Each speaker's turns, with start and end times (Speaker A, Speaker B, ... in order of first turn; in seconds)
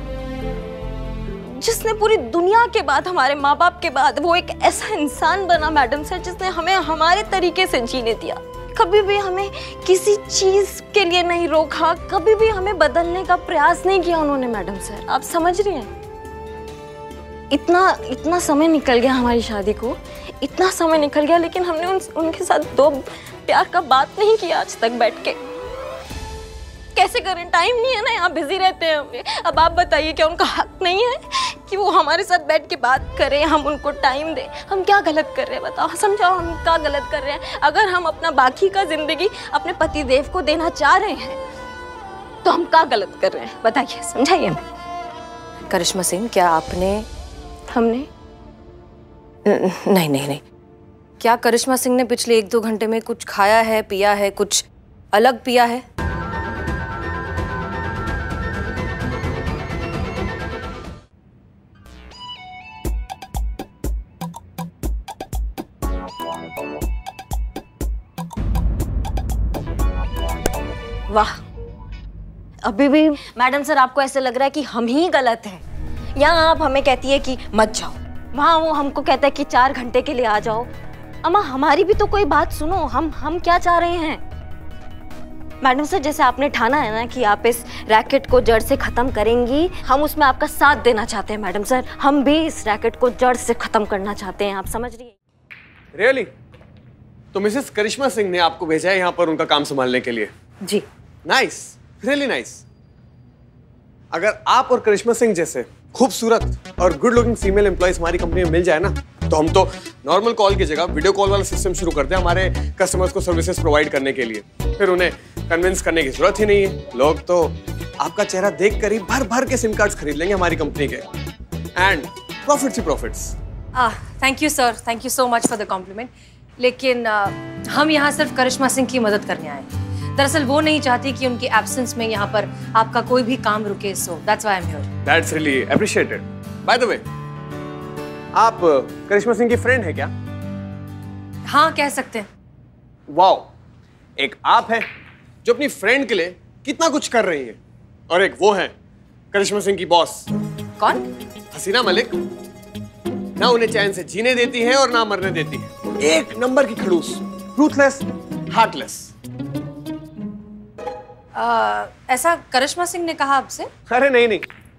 Speaker A: 1.4-15.9, 17.5-25.4, 26.9-41.4, 42.4-44.6, 47.7-48.1, 71.1-71.4, 72.6-75.6, 76.2-80.7, 81.2-84.2, 85.6-95.2
Speaker B: 45.7-47.0, 49.5-50.4, 51.2-55.8, 123.7-134.8, 141.5-142.3, 150.8-151.1, 161.3-163.7
Speaker C: 95.9-96.3, 97.3-100.3, 101.2-102.6, 104.1-121.0, 121.8-123.3, 135.0-137.0, 138.3-140.1, 143.1-143.5, 144.2-144.9, 145.4-148.7, 149.3-150.3, 151.5-152.2, 153.4-159.1, 163.9-164.4